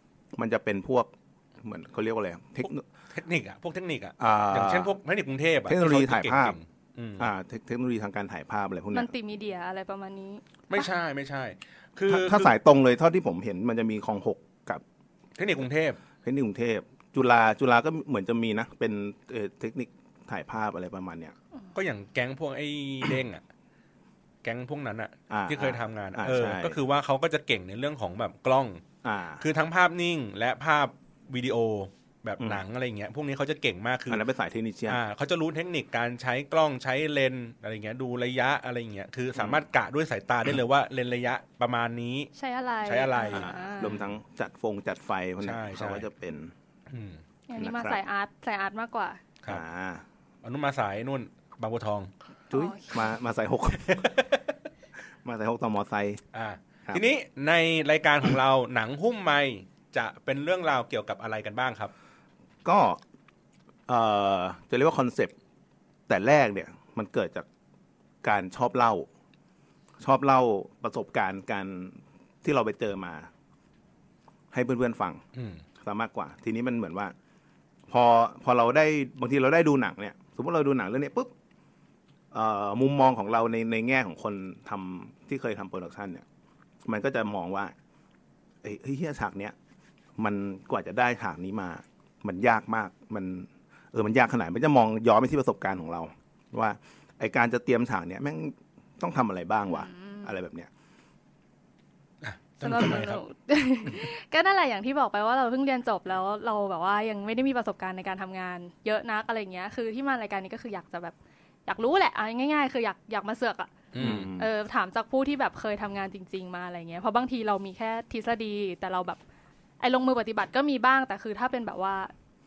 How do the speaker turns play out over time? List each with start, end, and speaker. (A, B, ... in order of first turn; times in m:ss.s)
0:00.3-0:02.8 A
0:03.1-0:07.3 B
0:04.2-0:04.9 A
0:05.6-0:06.6 A
0:07.2-0:09.1 A
0:08.9-0:10.8 C
0:10.7-0:12.5 B
0:12.1-0:14.8 A
0:15.4-0:16.0 B
0:16.2-0:21.3 A
0:21.7-0:23.4 B
0:24.4-0:28.8 B
0:25.3-0:26.8 A
0:29.0-0:29.4 A
0:29.4-0:34.2 B
0:34.1-0:35.0 A
0:34.9-0:42.3 B
0:42.4-0:44.0 C
0:42.8-0:43.5 B
0:43.3-0:46.5 A
0:45.4-0:46.0 B
0:46.9-0:47.2 B
0:47.5-0:49.2 C
0:47.6-0:48.0 A
0:49.5-0:50.0 A
0:50.4-0:52.1 B
0:52.5-0:54.2 A
0:52.5-0:53.1 C
0:55.2-0:56.2 A
0:56.3-1:01.9 B
1:02.6-1:03.0 A
1:03.9-1:05.3 A
1:06.1-1:07.4 A
1:08.2-1:09.1 A
1:10.0-1:13.3 A
1:14.5-1:15.2 A
1:15.3-1:15.6 B
1:15.8-1:17.1 A
1:17.9-1:21.3 A
1:22.3-1:26.2 A
1:26.8-1:27.7 A
1:28.6-1:29.5 A
1:30.2-1:40.7 A
1:39.7-1:40.3 C
1:42.2-1:43.2 B
1:42.6-1:51.1 C
1:51.7-1:59.2 C
1:53.9-1:54.3 B
1:54.0-1:54.5 A
1:59.8-2:02.1 C